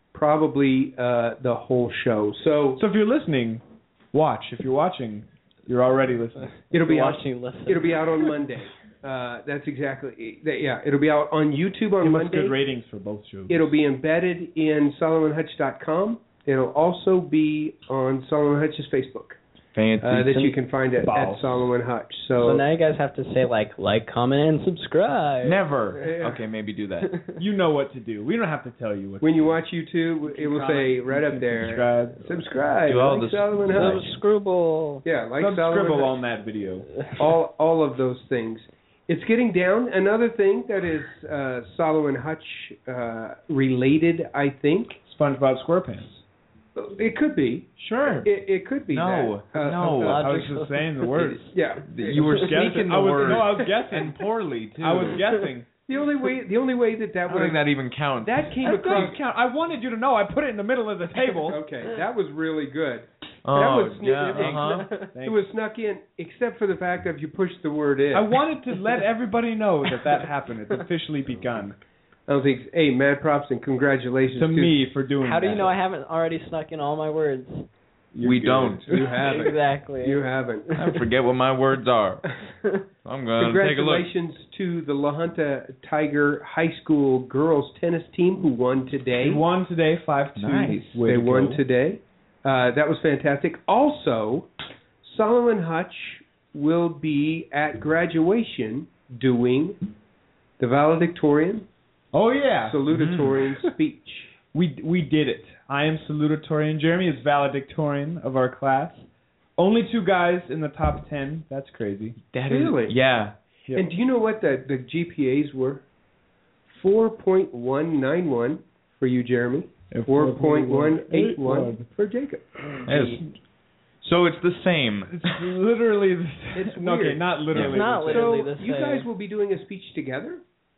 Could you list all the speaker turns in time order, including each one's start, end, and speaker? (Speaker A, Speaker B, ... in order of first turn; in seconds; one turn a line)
Speaker A: 0.1-2.8
Speaker B: 2.8-6.5
Speaker C: 6.7-8.0
Speaker A: 6.7-12.6
Speaker B: 12.0-13.7
Speaker A: 13.5-19.4
Speaker D: 19.7-20.6
Speaker A: 20.0-22.6
Speaker B: 21.0-21.7
Speaker C: 22.4-25.6
Speaker D: 25.4-27.1
Speaker A: 26.0-26.4
Speaker B: 27.4-29.6
Speaker A: 29.2-34.1
Speaker B: 30.2-32.3
Speaker D: 32.9-34.1
Speaker C: 33.7-35.0
Speaker A: 35.0-36.1
Speaker B: 35.4-36.9
Speaker A: 37.2-45.0
Speaker B: 45.0-46.2
Speaker A: 46.8-47.7
Speaker D: 47.8-48.3
Speaker A: 48.2-50.3
Speaker D: 48.9-50.3
Speaker C: 50.0-51.0
Speaker B: 50.1-55.7
Speaker A: 51.2-53.7
Speaker D: 51.9-55.2
Speaker A: 55.9-59.2
Speaker D: 57.3-59.1
Speaker B: 58.6-61.6
Speaker A: 61.5-68.3
Speaker D: 63.4-64.9
Speaker B: 64.3-65.5
Speaker C: 64.6-65.1
Speaker B: 68.1-71.8
Speaker A: 72.3-74.8
Speaker B: 74.3-75.8
Speaker C: 75.2-77.7
Speaker B: 78.1-79.5
Speaker D: 78.2-78.9
Speaker A: 78.9-80.7
Speaker C: 79.2-80.2
Speaker D: 80.7-82.3
Speaker D: 83.0-84.1
Speaker A: 83.4-89.4
Speaker B: 89.2-91.6
Speaker D: 90.4-91.0
Speaker A: 91.0-94.5
Speaker A: 95.0-99.8
Speaker A: 100.6-101.7
Speaker B: 102.1-102.8
Speaker A: 102.6-104.3
Speaker D: 102.9-103.4
Speaker B: 104.5-112.2
Speaker D: 112.3-113.3
Speaker A: 112.5-113.0
Speaker A: 113.7-115.8
Speaker A: 116.7-123.2
Speaker B: 119.9-121.9
Speaker B: 122.6-123.2
Speaker D: 122.9-123.2
Speaker D: 124.0-125.3
Speaker B: 125.1-128.4
Speaker A: 126.5-130.4
Speaker D: 127.5-127.8
Speaker C: 127.6-129.1